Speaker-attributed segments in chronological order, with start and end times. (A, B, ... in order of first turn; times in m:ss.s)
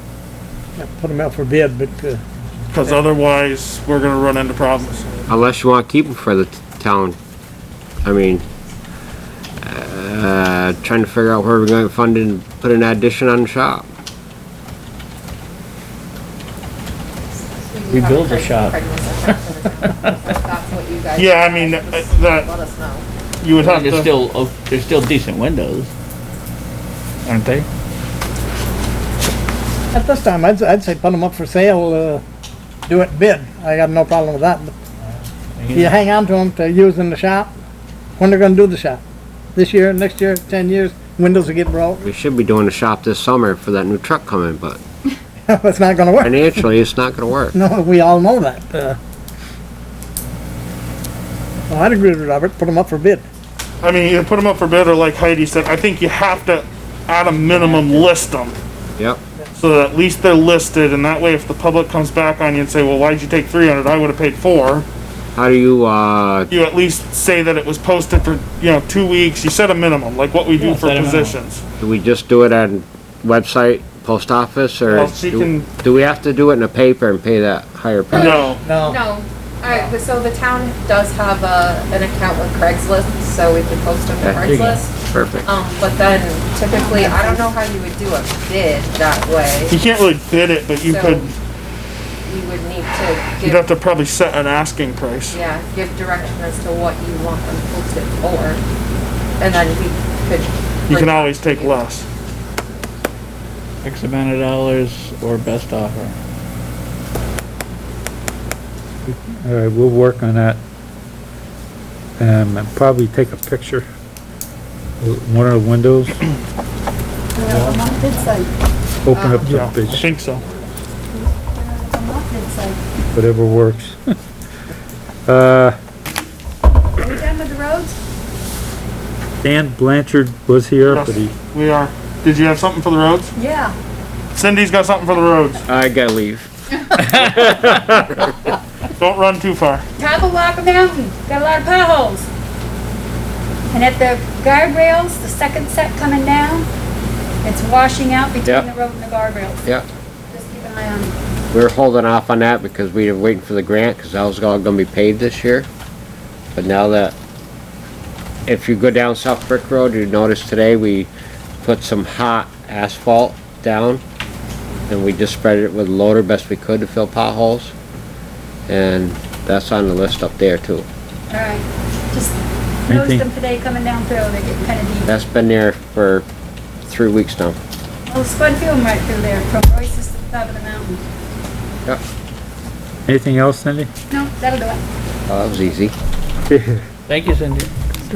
0:00.8-0:02.2 A
0:02.7-0:05.3 B
0:02.8-0:03.1 A
0:05.3-0:07.2 C
0:08.0-0:08.5 C
0:09.6-0:13.9 C
0:17.5-0:23.0 D
0:17.9-0:18.8 E
0:19.3-0:20.1 E
0:21.2-0:22.5 B
0:23.4-0:24.1 B
0:23.6-0:25.9 E
0:27.2-0:27.7 E
0:29.9-0:32.2 A
0:32.9-0:34.7 A
0:35.1-0:36.0 E
0:35.7-0:37.5 A
0:38.2-0:39.0 A
0:39.6-0:42.1 A
0:42.0-0:44.8 C
0:45.5-0:46.7 A
0:46.2-0:47.6 C
0:47.5-0:49.0 A
0:51.7-0:53.3 A
0:53.8-0:58.6 B
0:59.6-1:04.9 B
1:05.4-1:06.5 C
1:06.5-1:11.6 B
1:10.6-1:11.4 E
1:11.8-1:18.4 C
1:14.9-1:15.8 B
1:18.1-1:24.9 D
1:18.2-1:18.6 B
1:18.6-1:19.0 A
1:24.2-1:25.5 C
1:25.5-1:29.8 D
1:26.8-1:27.4 F
1:26.8-1:27.4 B
1:29.7-1:31.3 B
1:30.9-1:31.3 D
1:32.2-1:33.7 D
1:33.4-1:35.4 B
1:35.3-1:38.6 D
1:39.4-1:41.9 D
1:40.9-1:42.1 B
1:43.8-1:46.2 E
1:49.1-1:50.6 G
1:52.2-1:53.8 G
1:55.0-1:56.2 G
1:57.4-1:58.4 F
1:57.4-1:57.8 B
1:57.6-1:58.0 E
1:59.0-2:00.2 G
1:59.2-1:59.5 F
1:59.4-2:00.4 B
2:01.2-2:02.8 F
2:03.1-2:04.0 G
2:05.3-2:05.8 G
2:07.0-2:07.9 F
2:09.4-2:11.4 G
2:10.9-2:13.4 B
2:13.4-2:13.7 F
2:14.3-2:15.6 B
2:15.7-2:16.5 C
2:17.1-2:17.8 E
2:17.2-2:18.2 C
2:19.0-2:19.9 B
2:20.0-2:22.3 F
2:23.7-2:26.7 F
2:27.4-2:29.6 F
2:28.4-2:28.9 B
2:30.3-2:31.1 F
2:31.5-2:35.7 C
2:36.6-2:37.2 C
2:38.5-2:41.1 C
2:41.6-2:44.0 C
2:44.9-2:47.7 C
2:48.7-2:50.9 C
2:51.3-2:52.3 F
2:52.9-2:53.3 G
2:52.9-2:55.1 F
2:55.1-2:56.3 C
2:56.8-2:57.6 C
2:58.1-3:01.0 F
3:03.1-3:03.9 G
3:04.1-3:04.8 F
3:05.3-3:05.9 C
3:06.5-3:06.8 G
3:07.1-3:07.7 E